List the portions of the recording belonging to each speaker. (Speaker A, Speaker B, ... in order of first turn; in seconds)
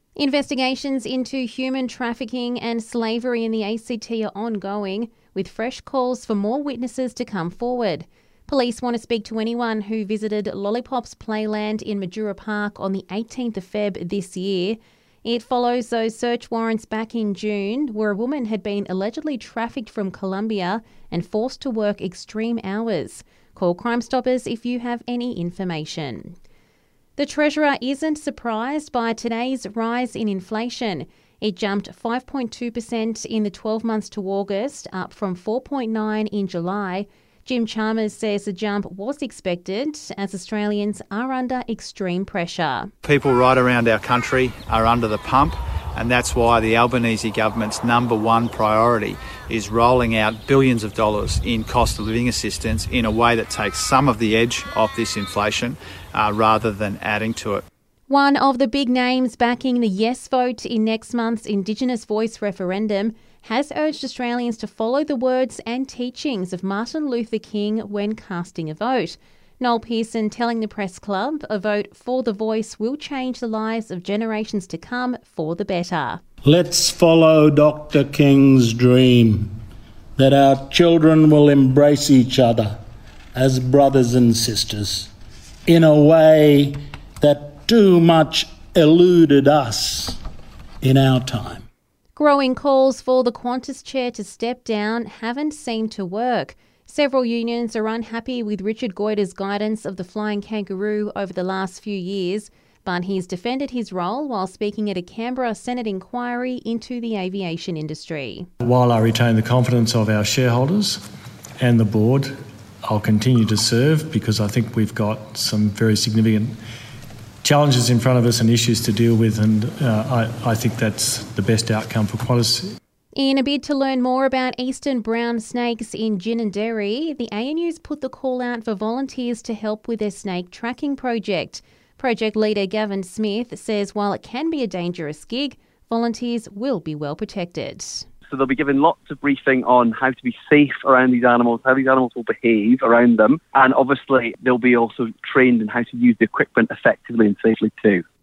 Speaker A: 0.2-26.4, 27.2-42.9, 58.1-76.2, 92.2-108.5, 123.2-138.1
Speaker B: 43.0-57.6
Speaker C: 76.5-79.5, 80.2-82.8, 83.3-85.1, 85.7-90.2, 90.8-91.7
Speaker D: 108.6-111.0, 111.6-112.3, 112.9-116.6, 117.4-122.8
Speaker E: 138.3-148.1